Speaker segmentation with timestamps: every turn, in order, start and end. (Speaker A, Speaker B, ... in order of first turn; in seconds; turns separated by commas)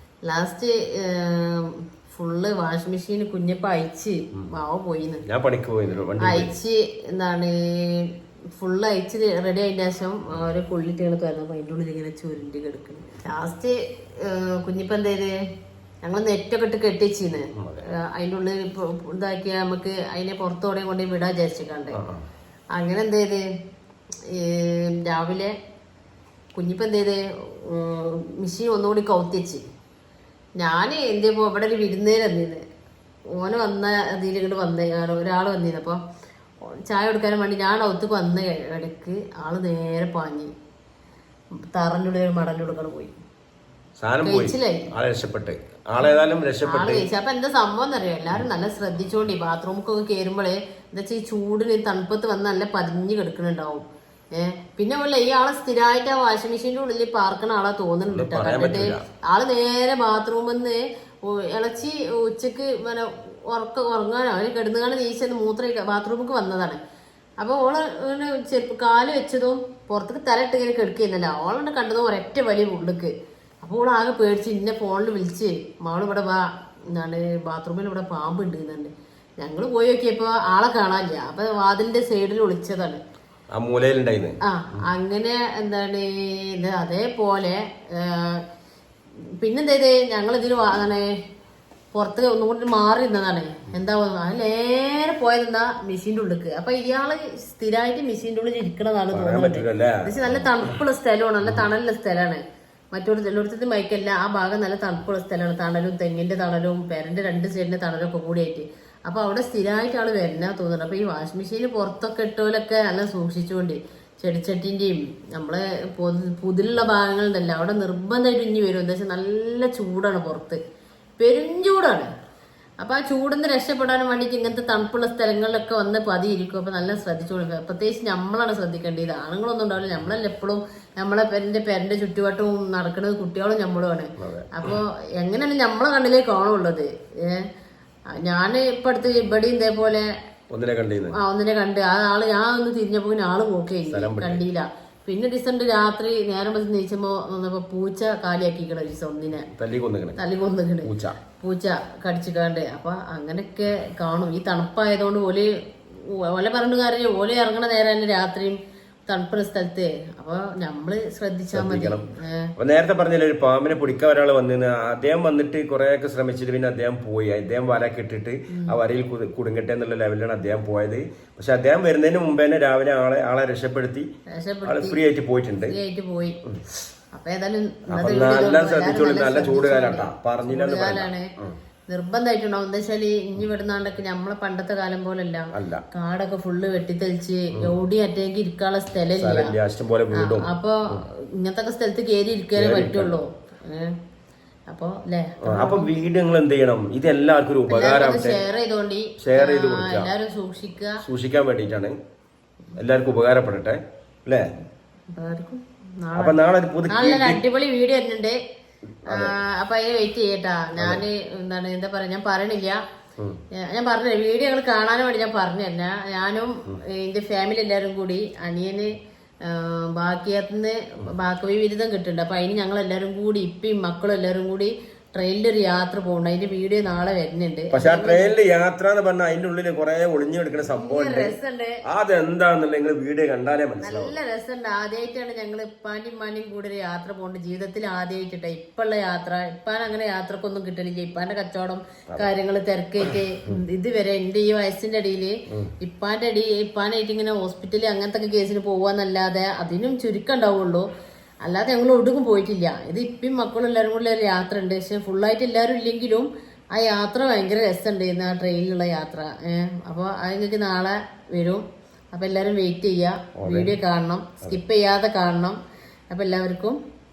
Speaker A: 0.2-5.2, Speaker B: 5.2-6.5, Speaker A: 6.2-15.3, Speaker A: 16.0-22.0, Speaker B: 17.5-17.9, Speaker B: 21.9-22.2, Speaker A: 22.7-23.4, Speaker A: 24.2-25.5, Speaker A: 26.5-29.6, Speaker A: 30.6-32.6, Speaker A: 33.3-36.0, Speaker A: 36.9-40.5, Speaker A: 41.7-43.1, Speaker B: 44.0-47.0, Speaker A: 44.2-44.9, Speaker A: 46.7-53.8, Speaker A: 54.3-66.8, Speaker B: 58.1-59.0, Speaker A: 67.4-83.0, Speaker B: 83.5-84.3, Speaker A: 84.4-88.4, Speaker A: 89.4-91.1, Speaker A: 91.9-120.6, Speaker B: 99.1-100.8, Speaker A: 121.2-122.1, Speaker A: 122.8-137.4, Speaker B: 134.2-134.8, Speaker A: 138.1-140.1, Speaker B: 140.5-141.2, Speaker A: 141.1-149.5, Speaker B: 143.9-144.4, Speaker B: 149.5-150.2, Speaker A: 150.2-162.5, Speaker B: 150.8-151.2, Speaker B: 161.5-162.1, Speaker B: 162.6-174.1, Speaker A: 168.5-168.8, Speaker A: 174.3-175.0, Speaker B: 174.6-175.8, Speaker A: 175.6-176.3, Speaker A: 177.1-181.3, Speaker B: 177.9-181.6, Speaker A: 181.9-189.5, Speaker B: 185.5-185.8, Speaker B: 189.2-191.0, Speaker A: 190.2-193.9, Speaker B: 192.5-193.2, Speaker A: 194.7-195.9, Speaker B: 195.4-198.4, Speaker A: 197.7-201.0, Speaker B: 199.2-200.1, Speaker B: 201.0-201.9, Speaker B: 202.7-204.4, Speaker A: 205.1-206.4, Speaker B: 206.1-207.4, Speaker A: 206.9-208.4, Speaker B: 209.1-209.3, Speaker A: 209.1-212.8, Speaker B: 210.8-211.0, Speaker A: 213.6-218.9, Speaker A: 219.4-228.4, Speaker B: 227.7-231.3, Speaker A: 230.6-231.8, Speaker B: 231.9-234.2, Speaker A: 233.8-250.8, Speaker B: 243.1-243.6, Speaker A: 251.4-265.6, Speaker B: 263.4-263.7, Speaker A: 266.1-266.8